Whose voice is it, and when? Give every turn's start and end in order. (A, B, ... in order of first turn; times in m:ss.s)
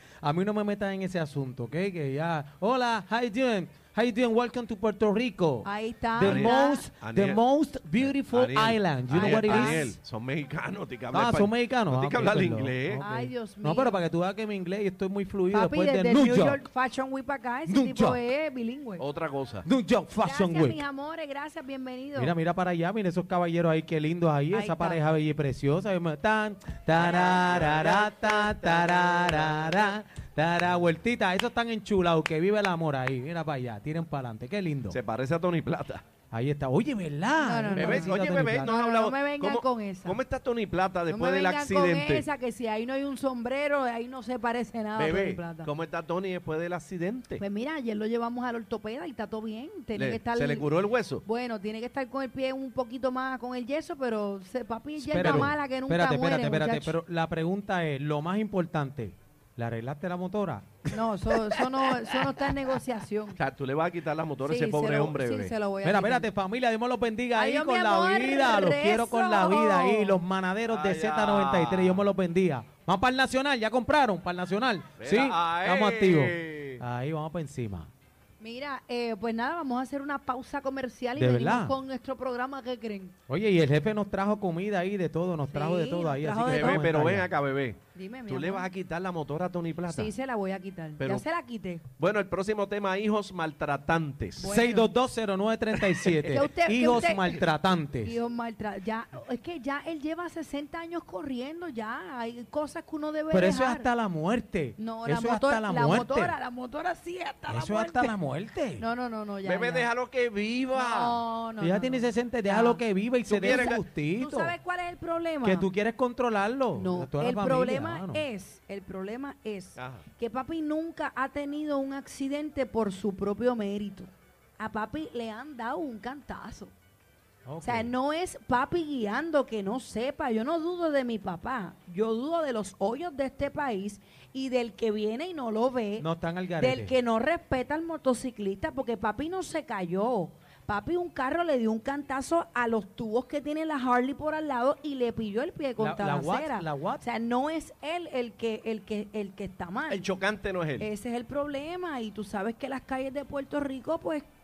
0:00.2-0:09.9 A
0:05.6-0:06.8 B
0:06.2-0:07.4 C
0:08.0-0:13.0 C
0:09.1-0:09.9 B
0:11.1-0:16.6 A
0:13.0-0:14.0 B
0:15.5-0:19.0 B
0:17.7-0:18.2 A
0:19.0-0:19.7 C
0:19.6-0:20.8 A
0:20.2-0:22.3 B
0:22.2-0:35.0 A
0:24.5-0:25.0 B
0:26.9-0:30.0 C
0:34.9-0:36.0 C
0:36.3-0:38.7 A
0:37.4-0:40.2 B
0:37.7-0:42.3 C
0:41.1-0:45.7 B
0:44.9-0:47.4 C
0:47.4-0:50.7 B
0:49.9-0:51.2 C
0:51.2-0:57.0 B
0:55.0-0:55.5 C
0:55.1-1:02.8 A
1:00.9-1:03.4 B
1:03.3-1:05.5 C
1:04.4-1:06.3 B
1:05.8-1:17.9 A
1:07.3-1:10.2 B
1:10.7-1:12.1 C
1:15.0-1:16.8 C
1:18.4-1:23.1 B
1:21.2-1:21.7 A
1:23.3-1:27.3 A
1:25.5-1:26.8 B
1:26.5-1:30.1 C
1:27.9-1:28.7 B
1:29.9-1:31.8 B
1:31.0-1:31.2 C
1:32.0-1:34.5 C
1:34.4-1:34.9 B
1:34.4-1:38.2 A
1:35.8-1:37.4 C
1:36.3-1:37.3 B
1:38.0-1:43.9 B
1:43.3-1:46.4 A
1:44.8-1:48.2 B
1:47.5-1:48.8 A
1:48.8-1:49.9 B
1:49.4-1:51.2 C
1:50.7-1:52.8 B
1:51.6-1:54.5 A
1:53.2-1:53.8 C
1:53.4-1:55.7 B
1:55.4-1:58.2 A
1:56.7-2:06.7 B
1:59.8-2:00.0 C
2:07.4-2:07.9 A
2:07.6-2:16.1 B
2:16.0-2:17.0 A
2:16.6-2:30.0 B
2:25.8-2:27.0 A
2:29.9-2:30.9 C
2:30.8-2:34.3 B